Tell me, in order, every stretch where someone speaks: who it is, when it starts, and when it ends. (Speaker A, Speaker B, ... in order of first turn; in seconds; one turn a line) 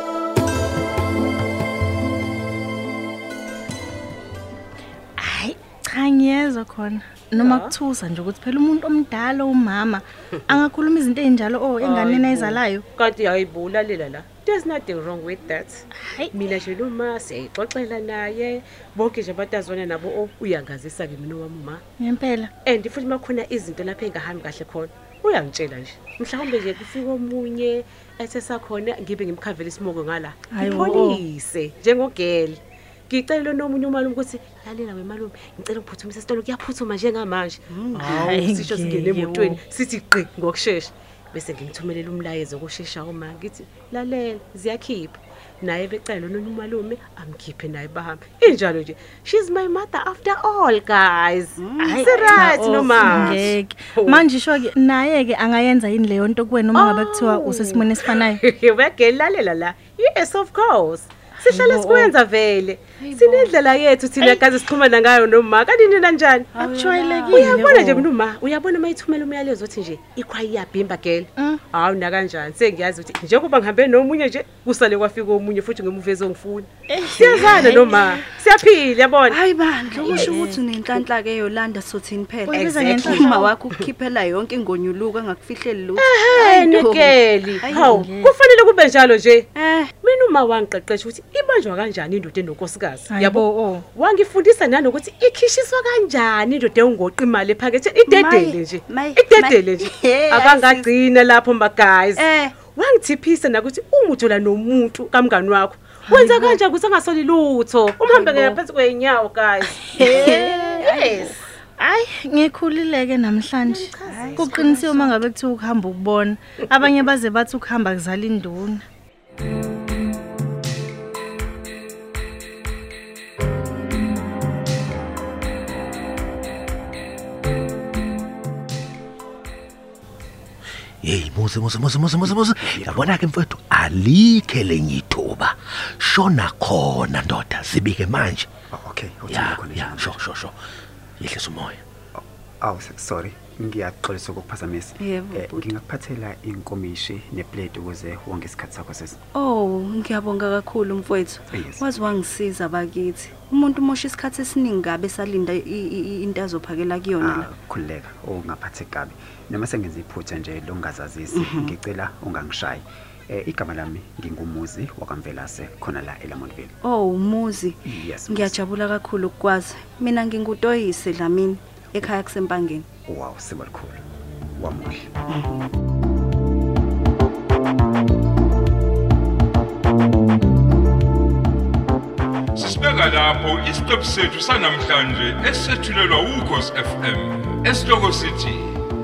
Speaker A: 5.2-12.8
Speaker B: 7.4-7.7
Speaker B: 11.8-21.8
Speaker A: 16.0-16.3
Speaker A: 22.0-22.5
Speaker B: 22.6-54.3
Speaker A: 30.5-31.2
Speaker C: 37.7-38.2
Speaker A: 38.1-39.6
Speaker C: 51.6-52.5
Speaker A: 51.8-58.4
Speaker B: 56.8-66.5
Speaker A: 61.4-62.1
Speaker C: 63.0-63.5
Speaker C: 66.5-67.6
Speaker A: 66.6-68.1
Speaker B: 67.3-79.4
Speaker A: 76.9-77.9
Speaker C: 77.3-78.2
Speaker C: 79.3-87.9
Speaker A: 79.9-80.7
Speaker B: 80.0-80.4
Speaker A: 82.5-83.3
Speaker B: 82.5-83.6
Speaker B: 86.0-89.5
Speaker A: 87.7-88.3
Speaker C: 89.5-89.9
Speaker B: 90.0-111.4
Speaker A: 93.1-93.8
Speaker C: 98.1-100.9
Speaker C: 102.2-102.5
Speaker A: 106.1-106.6
Speaker C: 108.2-108.6
Speaker A: 109.8-110.7
Speaker C: 110.8-111.2
Speaker A: 111.8-118.8
Speaker B: 113.6-115.2
Speaker C: 114.1-114.6
Speaker D: 131.0-138.5
Speaker E: 132.2-133.2
Speaker E: 138.7-140.2
Speaker D: 139.3-140.6
Speaker D: 141.2-141.8
Speaker E: 142.2-149.2
Speaker C: 145.0-145.8
Speaker C: 149.3-157.5
Speaker E: 151.5-151.9
Speaker E: 157.2-166.8
Speaker C: 161.3-161.8
Speaker C: 166.8-172.9
Speaker E: 167.9-168.6
Speaker E: 173.1-174.0
Speaker E: 174.6-175.2
Speaker F: 182.5-188.7